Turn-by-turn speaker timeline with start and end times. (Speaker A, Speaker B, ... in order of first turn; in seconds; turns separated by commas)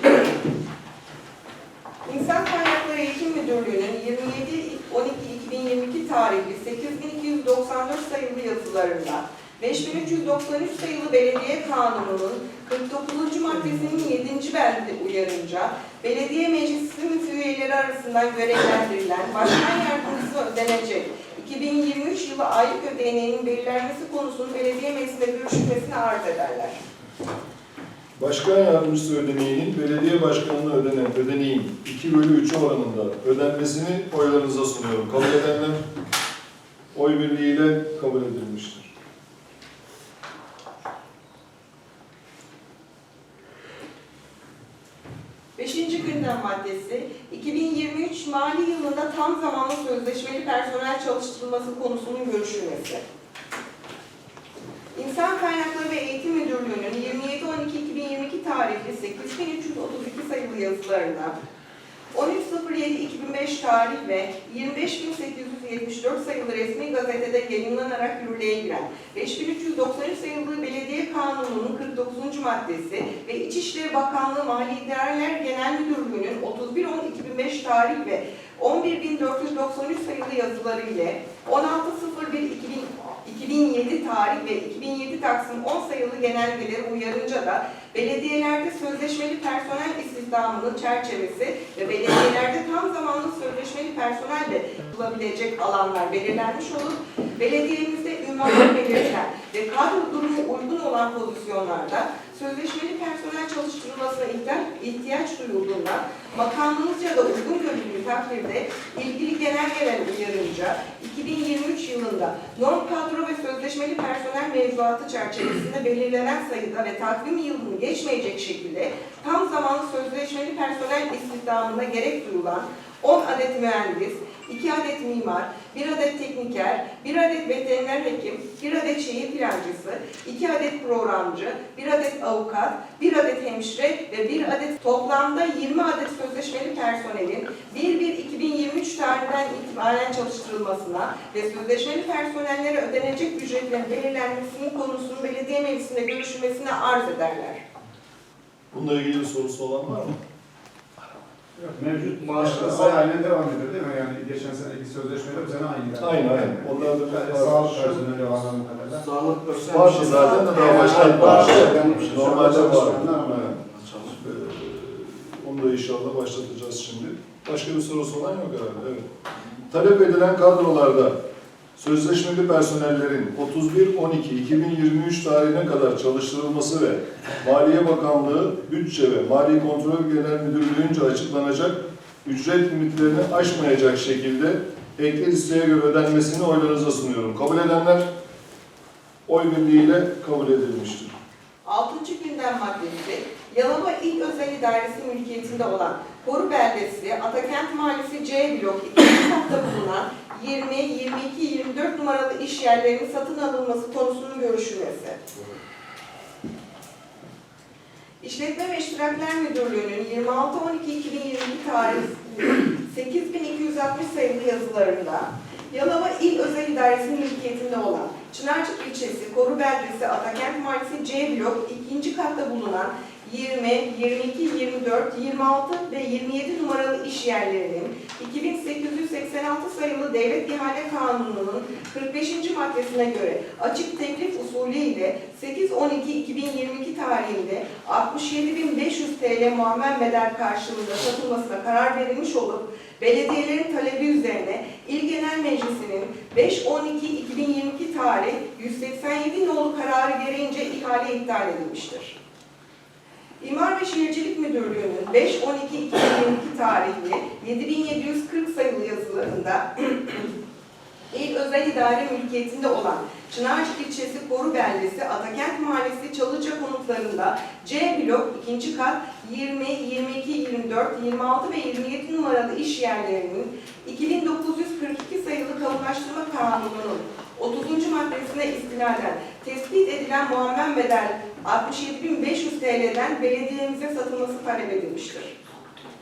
Speaker A: 2.0-26.8, Speaker B: 28.1-35.8, Speaker B: 36.9-38.9, Speaker A: 45.6-53.0, Speaker A: 54.9-61.4, Speaker A: 62.1-147.6, Speaker B: 148.7-150.2, Speaker C: 151.6-159.0, Speaker D: 152.2-153.0, Speaker B: 156.0-158.5, Speaker D: 158.9-164.2, Speaker B: 159.6-163.5, Speaker C: 160.4-163.6, Speaker B: 164.2-171.2, Speaker B: 171.8-188.1, Speaker B: 189.2-191.2, Speaker A: 191.6-205.2, Speaker A: 208.2-252.2, Speaker A: 253.4-260.3, Speaker A: 261.1-285.4